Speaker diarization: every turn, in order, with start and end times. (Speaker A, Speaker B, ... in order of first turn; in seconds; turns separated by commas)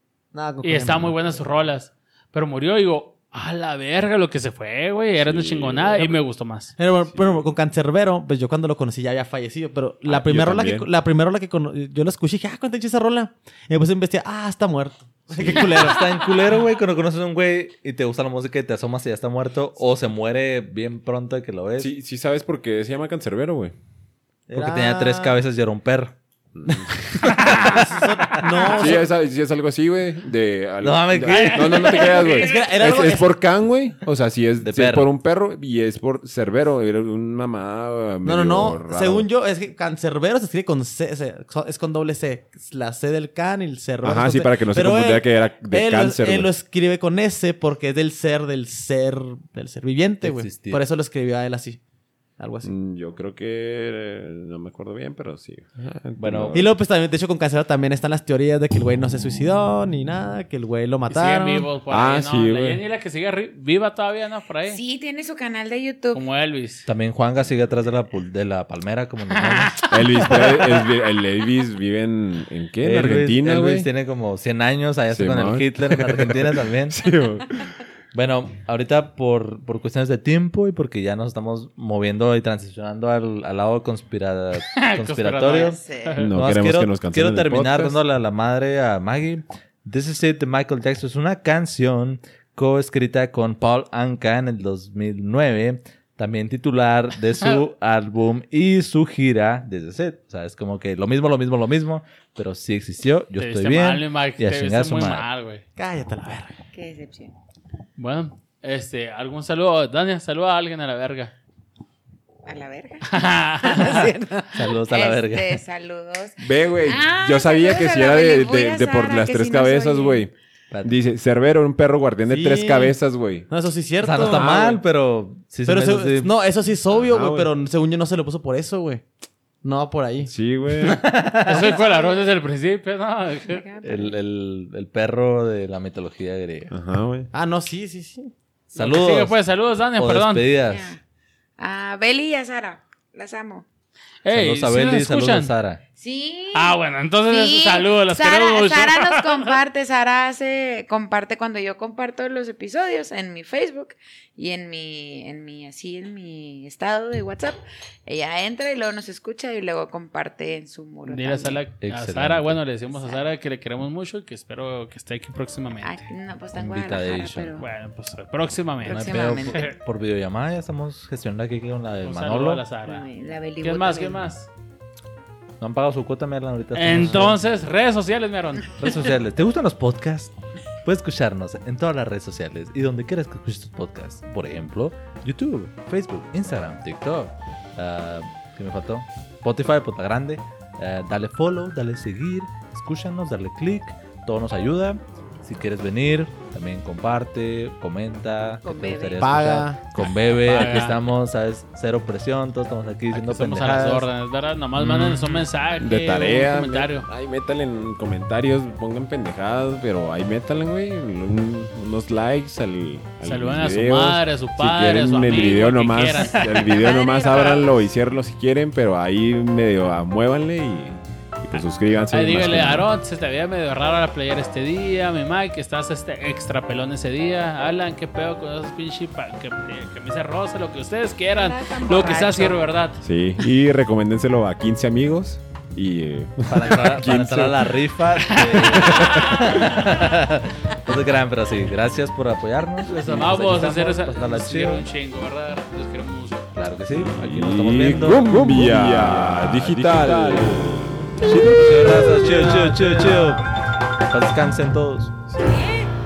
Speaker A: 0.3-1.3, Speaker B: 0.6-6.7, Speaker C: 5.2-6.2, Speaker A: 6.8-16.4, Speaker C: 7.1-7.5, Speaker C: 10.1-10.9, Speaker C: 15.3-15.7, Speaker D: 15.4-21.9, Speaker C: 21.8-23.8, Speaker A: 24.5-25.4, Speaker D: 24.5-26.2, Speaker C: 26.5-27.0, Speaker A: 26.7-29.1, Speaker D: 27.1-29.0, Speaker C: 28.7-39.3, Speaker D: 30.8-32.2, Speaker B: 31.3-32.8, Speaker A: 32.3-33.3, Speaker D: 34.6-35.1, Speaker A: 38.2-51.8, Speaker C: 44.0-46.5, Speaker D: 50.2-50.8, Speaker A: 52.4-52.7, Speaker C: 52.6-56.7, Speaker D: 56.2-56.6, Speaker A: 56.5-61.7, Speaker B: 61.1-64.8, Speaker C: 61.9-62.8, Speaker E: 64.7-66.2, Speaker B: 66.1-66.9, Speaker D: 66.9-69.8, Speaker B: 69.5-70.3, Speaker C: 69.9-73.9, Speaker D: 72.8-77.0, Speaker C: 75.1-77.7, Speaker D: 78.1-105.3, Speaker B: 84.8-86.3, Speaker E: 85.7-86.2, Speaker C: 86.2-88.0, Speaker B: 103.4-105.6, Speaker A: 105.8-106.6, Speaker E: 106.7-107.3, Speaker B: 108.0-111.3, Speaker E: 112.5-120.3, Speaker B: 113.1-114.0, Speaker D: 114.5-115.6, Speaker C: 116.4-120.3, Speaker D: 120.7-121.0, Speaker C: 120.8-123.5, Speaker A: 122.2-123.0, Speaker A: 123.5-124.8, Speaker D: 124.0-126.3, Speaker C: 124.2-124.7, Speaker A: 125.7-129.0, Speaker C: 126.9-127.5, Speaker A: 129.6-130.3, Speaker C: 130.3-131.0, Speaker D: 130.8-131.8, Speaker B: 131.4-133.6, Speaker E: 131.5-132.3, Speaker E: 133.5-134.2, Speaker D: 133.8-136.7, Speaker C: 136.7-137.3, Speaker A: 137.3-138.3, Speaker D: 138.7-139.3, Speaker B: 138.8-140.5, Speaker D: 140.0-140.9, Speaker E: 140.7-141.0, Speaker E: 141.6-143.7, Speaker B: 144.2-145.5, Speaker D: 144.3-145.8, Speaker E: 146.0-146.8, Speaker B: 146.5-149.5, Speaker E: 147.3-161.6, Speaker B: 161.1-166.0, Speaker D: 161.8-162.6, Speaker E: 162.9-163.3, Speaker E: 165.8-167.7, Speaker D: 166.6-167.7, Speaker B: 167.6-169.8, Speaker E: 168.8-169.7, Speaker D: 168.8-172.6, Speaker B: 172.1-173.1, Speaker E: 172.8-174.2, Speaker B: 173.6-174.5, Speaker D: 175.6-177.4, Speaker B: 176.8-178.7, Speaker A: 176.9-177.4, Speaker D: 178.8-204.1, Speaker E: 198.6-199.3, Speaker A: 199.2-199.8, Speaker B: 200.3-201.1, Speaker B: 203.1-207.1, Speaker C: 204.8-205.2, Speaker C: 205.8-222.9, Speaker B: 213.2-216.7, Speaker E: 216.2-217.8, Speaker B: 222.1-233.0, Speaker E: 231.4-232.6, Speaker C: 233.0-237.8, Speaker D: 236.5-244.9, Speaker B: 238.3-239.9, Speaker C: 238.8-239.9, Speaker B: 243.0-246.5, Speaker D: 246.6-253.5, Speaker C: 246.9-251.4, Speaker A: 248.3-248.8, Speaker A: 252.3-252.8, Speaker D: 254.1-255.1, Speaker C: 255.3-255.6, Speaker E: 255.4-255.9